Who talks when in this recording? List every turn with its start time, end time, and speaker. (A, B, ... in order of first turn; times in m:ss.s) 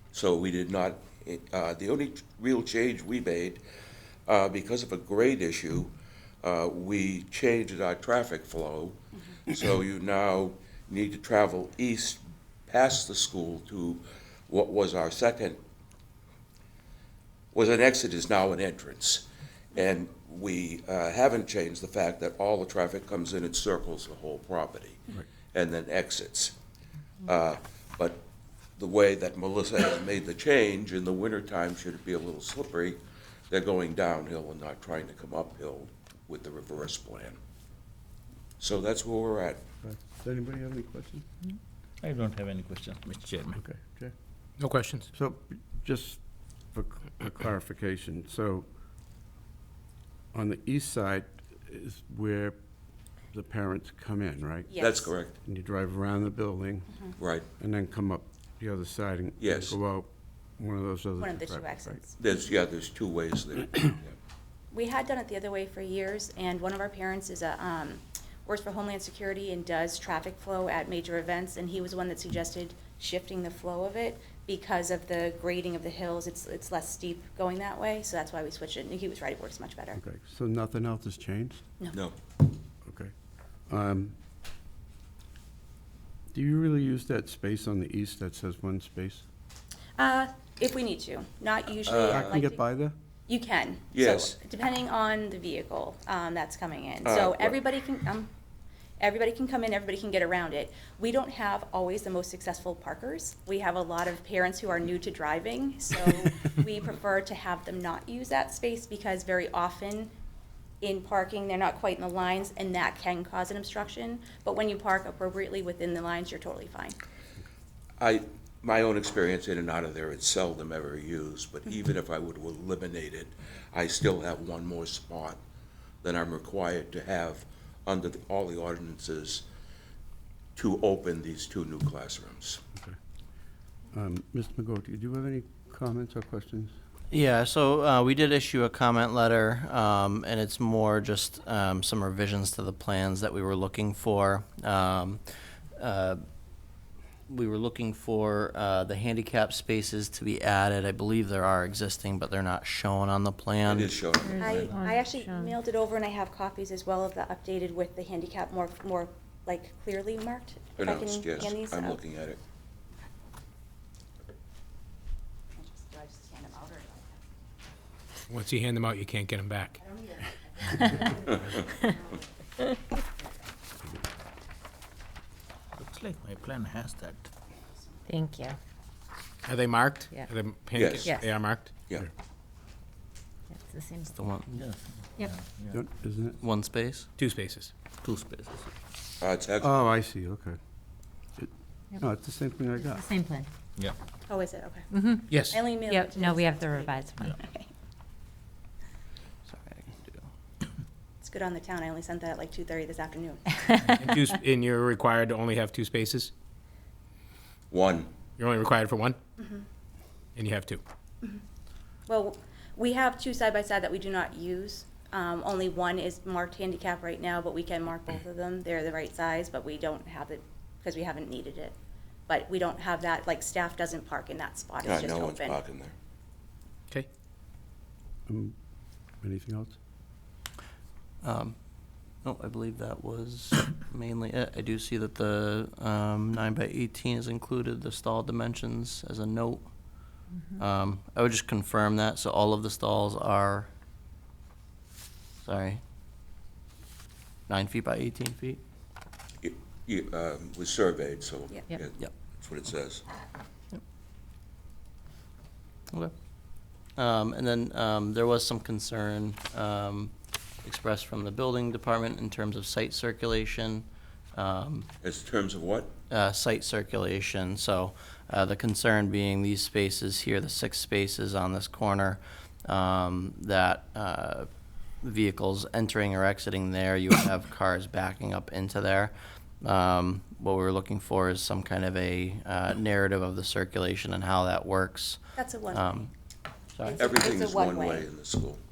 0:00.1-0:03.6 A
0:04.3-0:05.9 A
0:06.4-0:15.6 A
0:17.5-0:25.0 A
0:25.5-0:26.6 A
0:27.2-0:28.2 A
0:28.8-0:33.0 A
0:33.5-0:37.4 A
0:38.6-0:39.6 A
0:39.8-0:41.2 B
0:42.0-0:43.6 C
0:43.6-0:44.1 B
0:44.6-0:45.1 D
0:45.1-0:46.2 B
0:46.7-0:48.6 B
0:50.3-0:52.6 B
0:53.3-0:54.7 B
0:54.7-0:55.1 E
0:54.8-0:55.3 A
0:55.3-1:02.0 B
0:57.2-0:57.4 A
0:59.4-0:59.8 A
1:01.2-1:02.1 E
1:02.2-1:04.1 A
1:04.7-1:20.0 E
1:20.0-1:21.6 B
1:22.8-1:23.1 B
1:23.7-1:24.1 B
1:26.3-1:29.2 B
1:30.0-1:32.6 E
1:31.8-1:32.4 A
1:32.1-1:32.9 B
1:33.3-1:38.3 E
1:33.9-1:34.4 A
1:37.0-1:37.6 A
1:39.0-1:50.1 E
1:50.8-1:57.0 E
1:58.0-2:05.4 A
2:06.0-2:09.4 A
2:10.6-2:12.6 A
2:13.9-2:16.7 B
2:17.1-2:25.2 F
2:25.8-2:26.2 F
2:27.3-2:34.0 F
2:33.6-2:34.8 A
2:34.2-2:35.5 G
2:34.4-2:42.0 E
2:40.8-2:42.4 A
2:45.6-2:47.2 E
2:48.3-2:49.8 D
2:50.1-2:51.8 E
2:55.8-2:57.3 C
2:58.1-2:58.6 G
2:59.5-3:01.7 D
3:00.7-3:01.2 A
3:03.5-3:04.2 G
3:04.2-3:04.6 F
3:04.5-3:05.8 C
3:05.7-3:06.4 B
3:06.4-3:07.1 F
3:07.2-3:07.7 D
3:08.0-3:08.7 C
3:09.2-3:09.9 A
3:09.6-3:10.6 B
3:11.4-3:13.1 B
3:12.8-3:13.5 G
3:14.3-3:17.7 E
3:14.9-3:17.3 G
3:15.3-3:15.7 D
3:19.5-3:20.3 F
3:21.2-3:23.6 E
3:23.9-3:26.3 D
3:27.7-3:28.1 A
3:28.4-3:29.2 D
3:29.4-3:29.6 E
3:30.4-3:30.8 D
3:32.1-3:41.8 E
3:42.3-3:45.6 E
3:44.8-3:45.9 A
3:48.3-3:48.5 B
3:49.2-3:49.8 B
3:51.2-3:51.5 F
3:52.2-3:59.7 F
4:00.6-4:03.7 F
4:05.4-4:05.8 F
4:07.5-4:08.6 F
4:09.4-4:13.0 A
4:17.0-4:20.1 F
4:20.6-4:24.9 F
4:25.0-4:25.9 A
4:26.1-4:34.5 F
4:35.0-4:46.1 F
4:45.4-4:46.0 E
4:46.8-4:47.2 F
4:46.8-4:48.1 E
4:46.9-4:48.6 A